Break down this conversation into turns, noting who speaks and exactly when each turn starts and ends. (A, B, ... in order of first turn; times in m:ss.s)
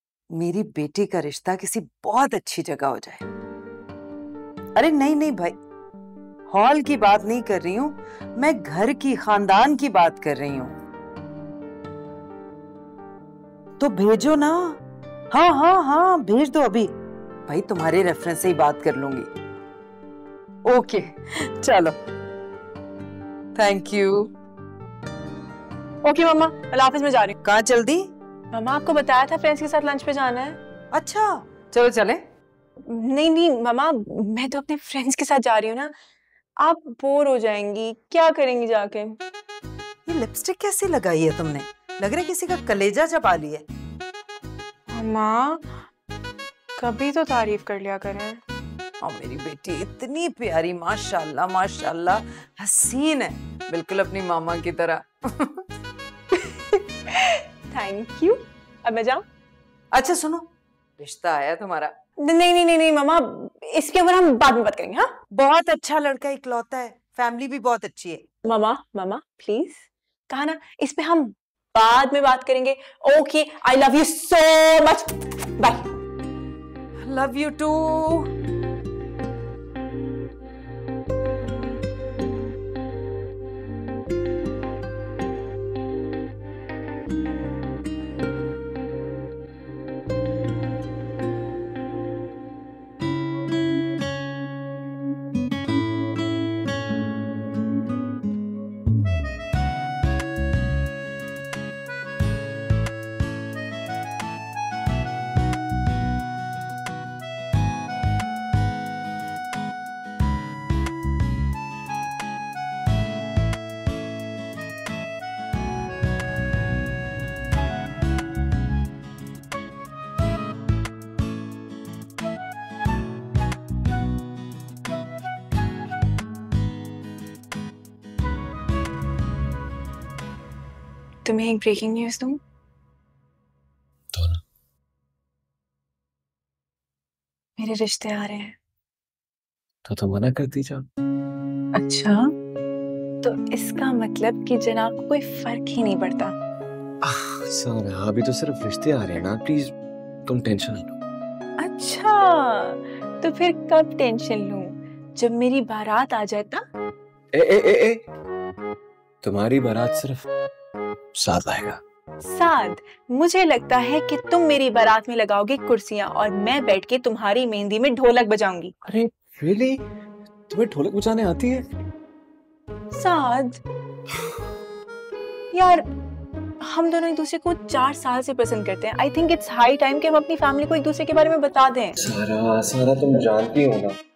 0:00.3-0:03.2 A
0:04.8-0:05.6 A
0:06.5-0:10.8 A
0:13.8-0:16.9 A
0:17.5-0:19.3 A
0:20.6-0:22.0 A
0:23.5-0:24.3 A
0:26.0-0:27.3 B
0:27.4-0:28.1 A
0:28.5-0:30.6 B
0:30.9-0:32.2 A
0:32.9-0:35.9 B
0:36.6-0:39.2 B
0:40.1-0:43.7 A
0:44.9-0:45.6 B
0:46.8-0:48.4 B
0:49.0-0:55.6 A
0:57.1-0:59.2 B
0:59.9-1:01.9 A
1:02.2-1:05.1 B
1:05.3-1:08.2 A
1:08.4-1:15.9 B
1:17.0-1:18.3 A
2:11.2-2:12.4 B
2:14.1-2:14.4 C
2:17.6-2:18.5 B
2:19.8-2:20.9 C
2:21.7-2:22.3 B
2:23.2-2:26.3 B
2:27.0-2:29.7 C
2:30.2-2:31.0 C
2:31.6-2:36.6 B
2:37.3-2:38.0 C
2:39.2-2:40.3 C
2:41.2-2:41.8 C
2:42.2-2:48.7 B
2:48.8-2:49.8 C
2:50.5-2:51.7 C
2:52.9-2:53.6 B
2:55.5-2:55.8 B
2:56.6-3:02.0 B
3:02.0-3:04.0 C